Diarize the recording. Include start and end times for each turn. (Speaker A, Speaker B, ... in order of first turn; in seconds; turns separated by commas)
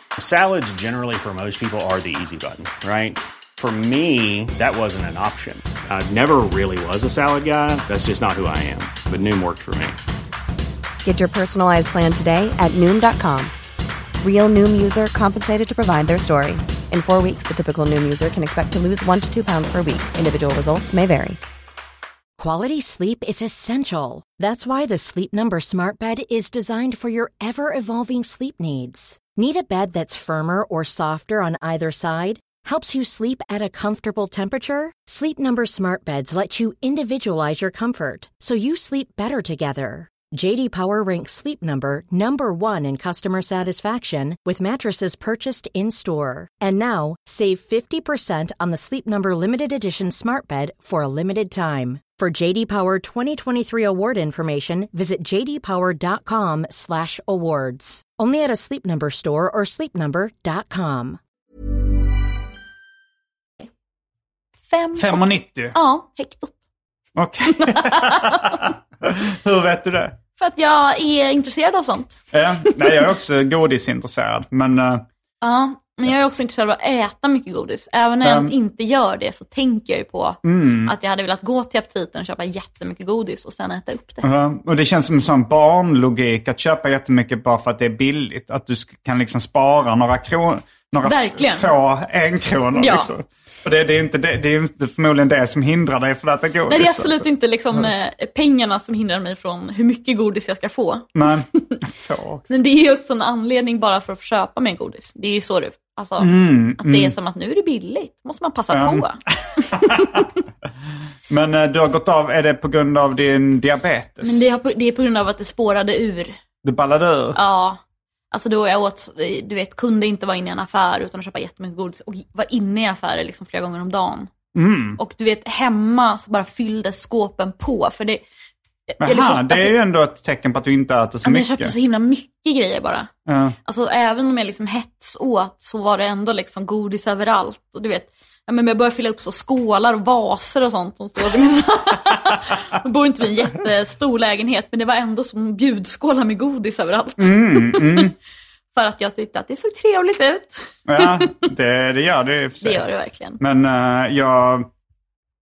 Speaker A: 0.2-9.9, Speaker B: 11.0-13.5, Speaker B: 14.2-21.4, Speaker C: 22.4-61.2, Speaker D: 64.7-66.5, Speaker E: 64.9-65.8, Speaker E: 67.2-70.2, Speaker D: 67.5-68.7, Speaker D: 70.4-73.1, Speaker E: 72.3-75.0, Speaker D: 75.4-84.3, Speaker E: 78.2-78.5, Speaker E: 80.4-80.9, Speaker E: 84.2-97.2, Speaker D: 91.0-91.7, Speaker D: 92.8-93.1, Speaker D: 96.7-101.8, Speaker E: 101.1-102.5, Speaker D: 102.5-110.2, Speaker E: 106.2-107.1, Speaker E: 108.7-110.3, Speaker E: 111.3-114.5, Speaker D: 114.2-116.4, Speaker E: 116.6-117.4, Speaker D: 117.3-117.8, Speaker D: 118.3-124.3, Speaker E: 124.5-125.0, Speaker D: 125.0-128.2, Speaker D: 128.9-129.8, Speaker E: 129.0-131.7, Speaker D: 131.2-133.1, Speaker E: 133.2-133.6, Speaker D: 133.6-148.1, Speaker E: 147.2-148.1, Speaker D: 148.7-151.4, Speaker E: 150.9-152.8, Speaker D: 152.6-153.4, Speaker E: 153.4-154.7